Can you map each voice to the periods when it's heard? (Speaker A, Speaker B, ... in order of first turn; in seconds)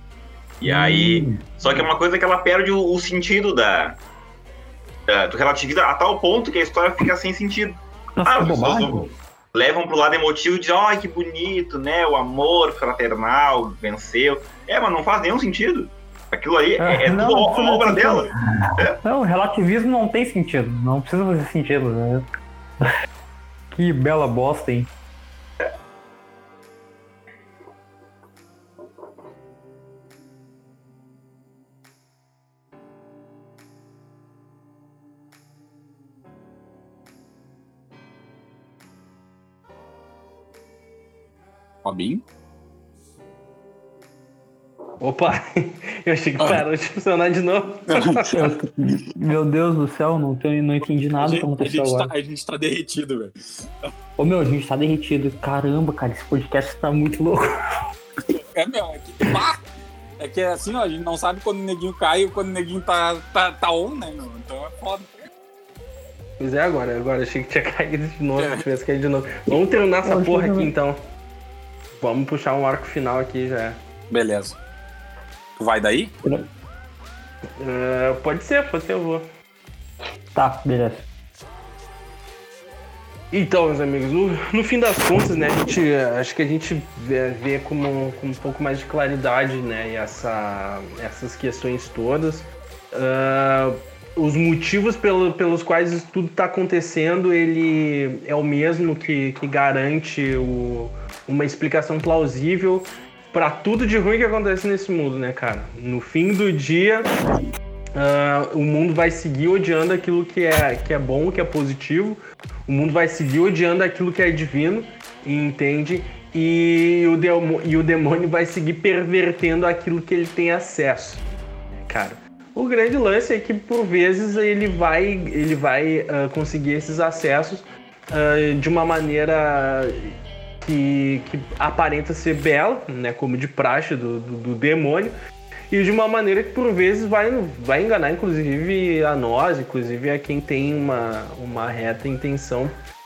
Speaker A: 0.6-4.0, 5.1-18.9
Speaker B: 0.6-1.8, 8.2-9.1, 16.8-22.2, 23.7-24.9, 48.3-52.1, 54.2-57.5, 69.5-70.7, 80.3-81.0
Speaker C: 41.8-42.2, 47.9-48.3, 51.2-53.7, 58.3-59.6, 60.2-65.1, 68.4-68.6, 74.1-74.6, 75.6-76.1
Speaker D: 45.0-48.3, 66.4-71.0, 72.0-73.8, 77.6-79.2, 83.3-107.1, 108.0-121.2, 121.8-135.1, 135.7-142.7